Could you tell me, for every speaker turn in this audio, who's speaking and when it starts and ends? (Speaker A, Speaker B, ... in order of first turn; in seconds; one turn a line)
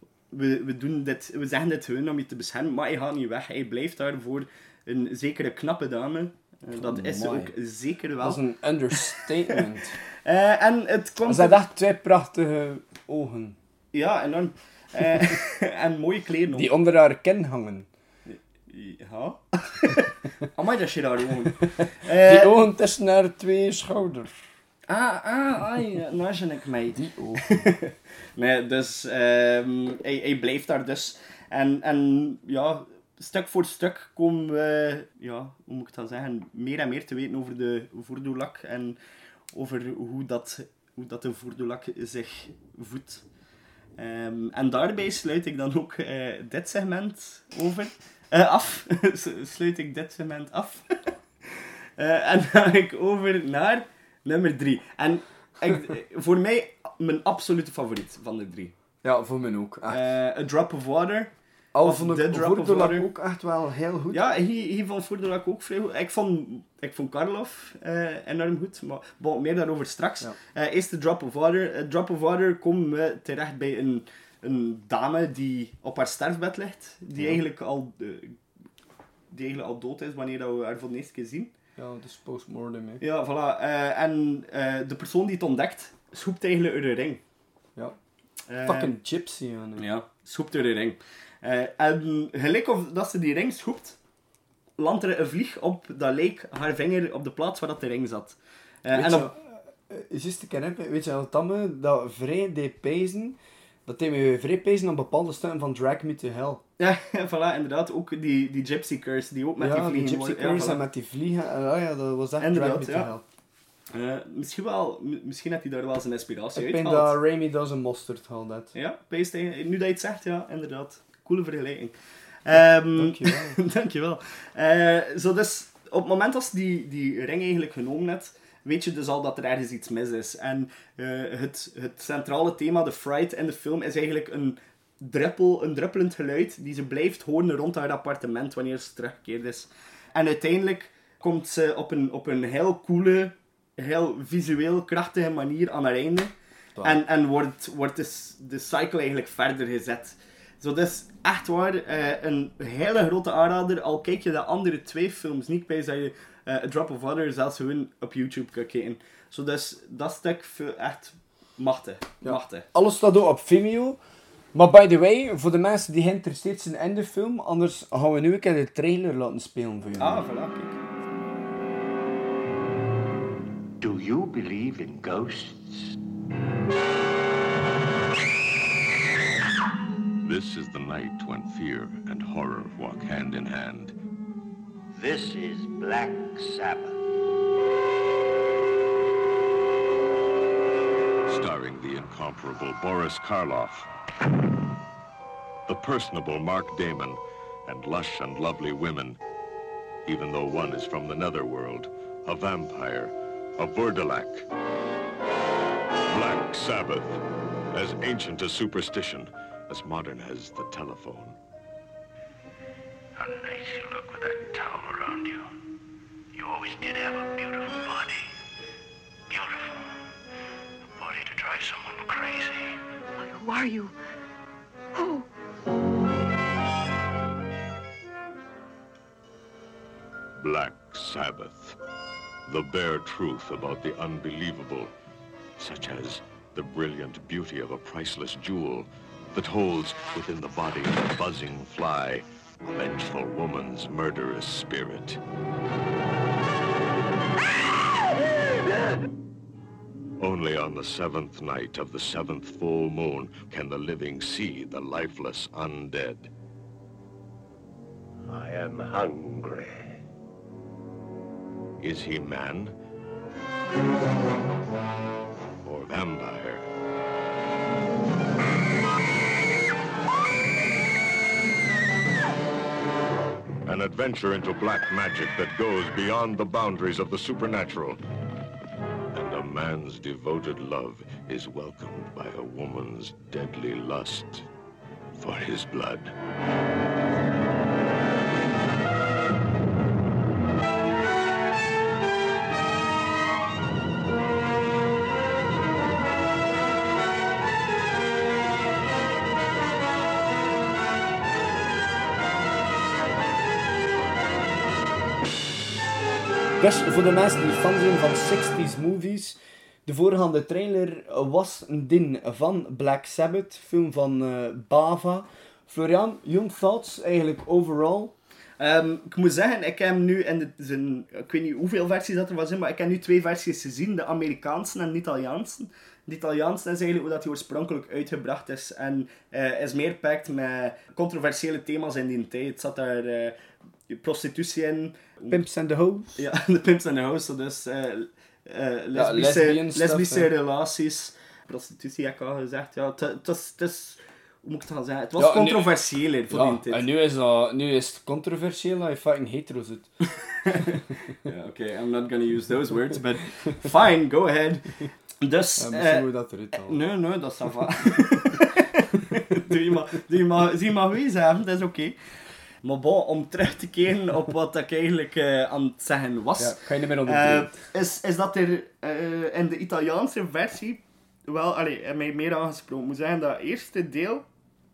Speaker A: 0.3-9.2
Speaker B: 6.7-7.5
Speaker B: 8.2-10.0
Speaker A: 10.2-11.6
Speaker B: 11.2-13.6
Speaker A: 13.9-16.7
Speaker B: 16.5-17.9
Speaker A: 18.3-22.6
Speaker B: 21.8-24.4
Speaker A: 24.9-39.0
Speaker B: 27.0-27.6
Speaker A: 39.5-43.2
Speaker A: 44.0-50.9
Speaker A: 51.5-58.7
Speaker B: 59.0-60.1
Speaker A: 59.9-61.3
Speaker B: 61.7-64.3
Speaker A: 61.8-63.1
Speaker A: 64.1-78.4
Speaker B: 77.2-77.4
Speaker A: 79.3-81.5
Speaker B: 81.8-83.0
Speaker A: 83.0-87.2
Speaker A: 88.5-88.9
Speaker B: 88.7-89.9
Speaker A: 89.8-94.0
Speaker A: 94.8-99.3
Speaker B: 98.9-106.6
Speaker A: 106.8-110.8
Speaker B: 109.6-113.2
Speaker A: 112.4-113.1
Speaker A: 113.9-117.2
Speaker B: 116.5-118.7
Speaker A: 118.7-121.9
Speaker A: 122.5-146.3
Speaker B: 123.0-123.6
Speaker B: 146.8-147.0
Speaker A: 146.8-162.7
Speaker B: 162.2-164.0
Speaker B: 164.5-170.3
Speaker A: 170.0-170.8
Speaker C: 173.8-175.9
Speaker D: 180.2-183.9
Speaker C: 184.9-186.9
Speaker D: 191.3-193.9
Speaker D: 195.7-199.2
Speaker D: 200.1-204.5
Speaker D: 206.1-207.2
Speaker D: 207.7-211.4
Speaker C: 213.2-215.4
Speaker C: 216.3-218.3
Speaker C: 219.3-219.9
Speaker C: 221.0-223.7
Speaker D: 230.4-231.8
Speaker D: 232.5-234.9
Speaker D: 235.6-245.2
Speaker D: 250.2-256.3
Speaker D: 258.3-259.7
Speaker D: 261.8-262.7
Speaker D: 265.6-266.6
Speaker D: 273.7-278.0
Speaker D: 279.1-284.5
Speaker D: 285.2-286.1
Speaker B: 306.6-318.1
Speaker A: 318.6-333.4
Speaker A: 333.9-335.4
Speaker B: 335.3-336.2
Speaker A: 336.2-346.9
Speaker B: 338.9-340.3
Speaker B: 345.2-349.9
Speaker A: 350.5-354.6
Speaker A: 355.2-362.0
Speaker B: 355.6-356.8
Speaker A: 362.6-374.2
Speaker B: 366.4-367.6